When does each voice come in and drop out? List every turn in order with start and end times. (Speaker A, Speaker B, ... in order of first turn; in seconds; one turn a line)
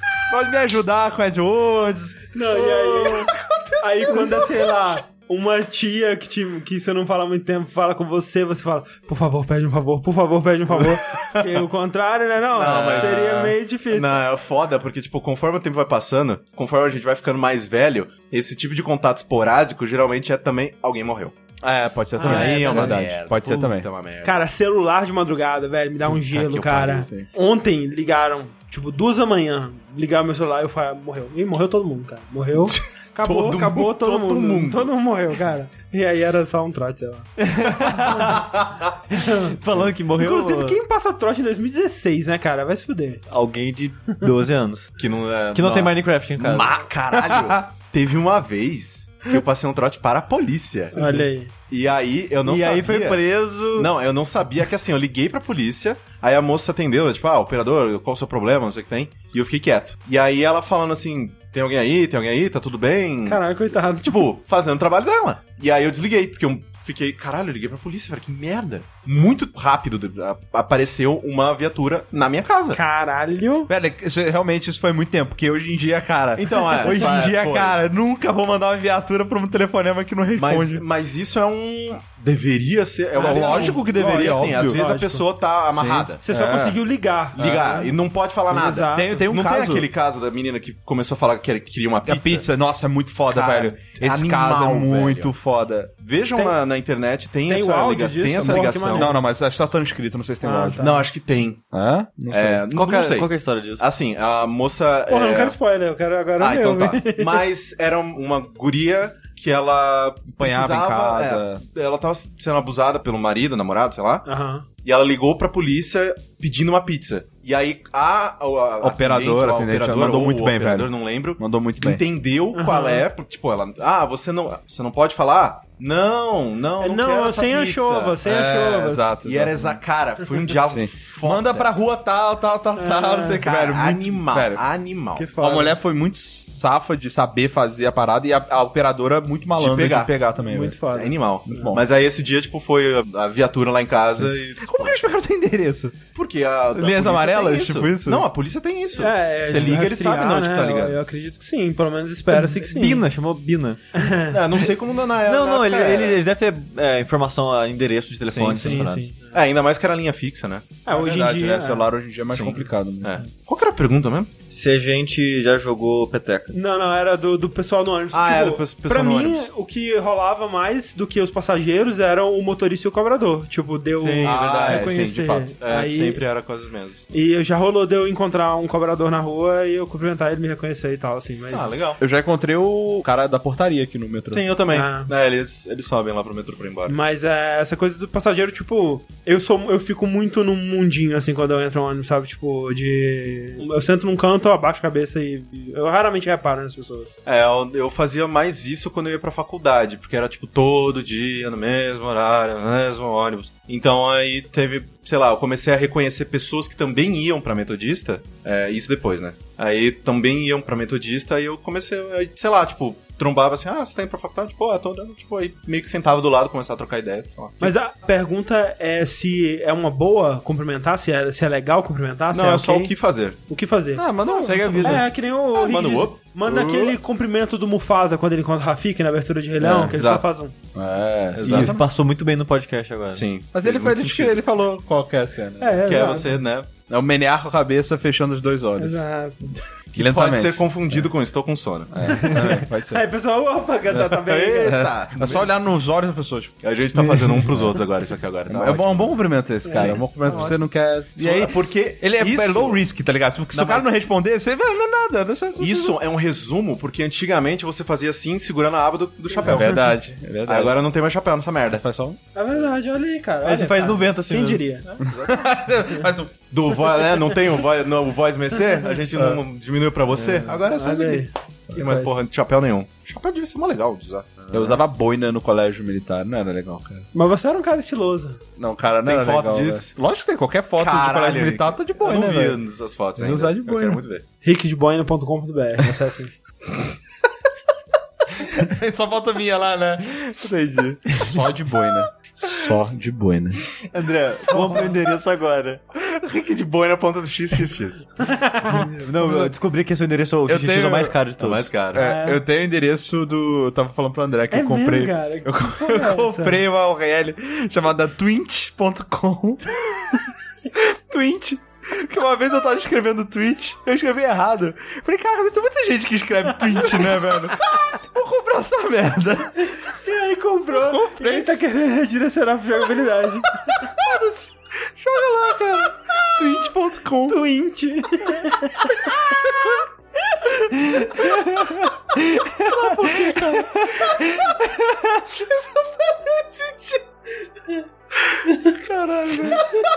Speaker A: 0.3-2.2
Speaker B: 2.3-14.2
Speaker C: 2.5-4.9
Speaker C: 10.8-11.6
Speaker C: 12.5-21.4
Speaker A: 12.6-13.4
Speaker A: 21.6-23.9
Speaker B: 22.2-23.0
Speaker C: 22.2-24.4
Speaker B: 24.2-37.4
Speaker C: 26.1-27.1
Speaker C: 32.7-34.9
Speaker D: 37.4-38.5
Speaker C: 37.9-38.9
Speaker D: 39.1-40.8
Speaker B: 39.1-39.6
Speaker B: 40.2-43.2
Speaker D: 43.3-45.0
Speaker C: 45.0-51.0
Speaker D: 45.5-46.8
Speaker A: 47.1-47.7
Speaker B: 51.0-51.5
Speaker D: 51.0-51.2
Speaker C: 51.7-53.2
Speaker D: 52.5-53.9
Speaker C: 53.7-63.4
Speaker B: 63.3-64.3
Speaker C: 64.0-72.8
Speaker B: 72.7-73.7
Speaker A: 73.7-80.8
Speaker C: 76.4-77.8
Speaker C: 80.4-86.2
Speaker B: 83.2-85.2
Speaker A: 83.2-84.8
Speaker A: 85.7-86.8
Speaker B: 86.2-88.0
Speaker C: 87.3-92.5
Speaker B: 88.5-89.3
Speaker A: 88.9-89.9
Speaker A: 92.1-95.9
Speaker C: 93.3-95.3
Speaker C: 96.0-99.2
Speaker B: 97.5-99.2
Speaker A: 98.9-100.9
Speaker B: 100.4-101.1
Speaker C: 100.8-101.6
Speaker A: 101.7-102.6
Speaker C: 102.3-105.6
Speaker D: 102.7-103.8
Speaker B: 105.1-107.5
Speaker C: 106.4-114.3
Speaker A: 110.4-111.6
Speaker B: 114.2-114.7
Speaker C: 114.8-128.2
Speaker A: 118.8-122.0
Speaker B: 122.5-123.1
Speaker B: 126.8-129.1
Speaker A: 128.2-129.8
Speaker C: 129.2-131.7
Speaker A: 130.7-134.7
Speaker B: 132.8-133.8
Speaker C: 133.4-135.3
Speaker B: 135.2-135.8
Speaker A: 135.4-140.8
Speaker C: 139.6-140.2
Speaker B: 140.4-141.8
Speaker C: 140.9-145.1
Speaker A: 141.5-141.8
Speaker A: 144.2-146.0
Speaker C: 146.2-151.0
Speaker A: 146.7-148.3
Speaker B: 149.0-153.1
Speaker D: 152.3-153.8
Speaker B: 153.9-154.4
Speaker C: 154.3-156.2
Speaker D: 155.2-159.1
Speaker C: 158.3-160.8
Speaker B: 158.5-159.4
Speaker B: 160.9-161.9
Speaker A: 160.9-163.2
Speaker C: 162.3-164.3
Speaker D: 164.5-166.6
Speaker B: 166.5-176.2
Speaker C: 168.1-169.5
Speaker C: 174.0-174.9
Speaker D: 174.2-174.6
Speaker A: 174.6-175.5
Speaker C: 175.6-177.1
Speaker B: 177.1-181.8
Speaker C: 181.5-182.0
Speaker A: 182.0-184.5
Speaker C: 184.3-186.9
Speaker B: 184.7-185.1
Speaker B: 186.9-197.2
Speaker C: 197.2-217.7
Speaker B: 217.6-222.9
Speaker C: 222.3-223.4
Speaker B: 223.5-230.6
Speaker A: 224.0-225.0
Speaker D: 224.3-225.1
Speaker C: 225.6-227.0
Speaker C: 229.6-230.2
Speaker A: 230.7-231.8
Speaker C: 231.4-231.8
Speaker D: 231.4-233.2
Speaker C: 233.1-234.4
Speaker A: 233.5-236.1
Speaker B: 235.6-236.4
Speaker C: 235.8-236.7
Speaker A: 236.9-238.9
Speaker B: 238.8-239.6
Speaker C: 239.9-242.3
Speaker A: 240.0-241.1
Speaker A: 241.9-243.1
Speaker B: 242.3-244.8
Speaker A: 243.9-247.8
Speaker C: 244.2-245.5
Speaker C: 246.6-250.6
Speaker A: 248.5-256.0
Speaker B: 249.7-250.5
Speaker C: 251.2-252.8
Speaker C: 253.5-253.8
Speaker C: 255.6-259.9
Speaker A: 259.4-260.8
Speaker B: 259.5-259.8
Speaker C: 260.5-261.8
Speaker A: 261.7-262.2
Speaker B: 262.3-264.9
Speaker D: 263.4-264.6
Speaker C: 265.0-265.4
Speaker A: 265.0-266.3
Speaker C: 266.5-274.8
Speaker B: 270.5-272.1
Speaker A: 274.5-277.1
Speaker B: 277.1-278.4
Speaker A: 278.6-282.6
Speaker C: 279.1-279.9
Speaker C: 280.8-284.2
Speaker A: 283.2-284.0
Speaker B: 284.4-286.3
Speaker A: 288.4-293.6
Speaker D: 293.9-295.8
Speaker A: 294.6-294.9
Speaker C: 295.9-298.1
Speaker B: 298.2-298.9
Speaker D: 298.6-301.7
Speaker A: 299.2-299.5
Speaker A: 300.5-301.1
Speaker C: 301.4-302.1
Speaker A: 301.9-319.9
Speaker B: 302.0-302.4
Speaker B: 304.5-306.6
Speaker B: 319.7-323.9
Speaker A: 320.7-321.5
Speaker A: 323.8-327.4
Speaker B: 327.3-329.3
Speaker A: 329.2-329.8
Speaker B: 330.3-331.5
Speaker A: 331.1-334.9
Speaker B: 332.8-333.6
Speaker B: 335.4-336.9
Speaker A: 338.4-339.8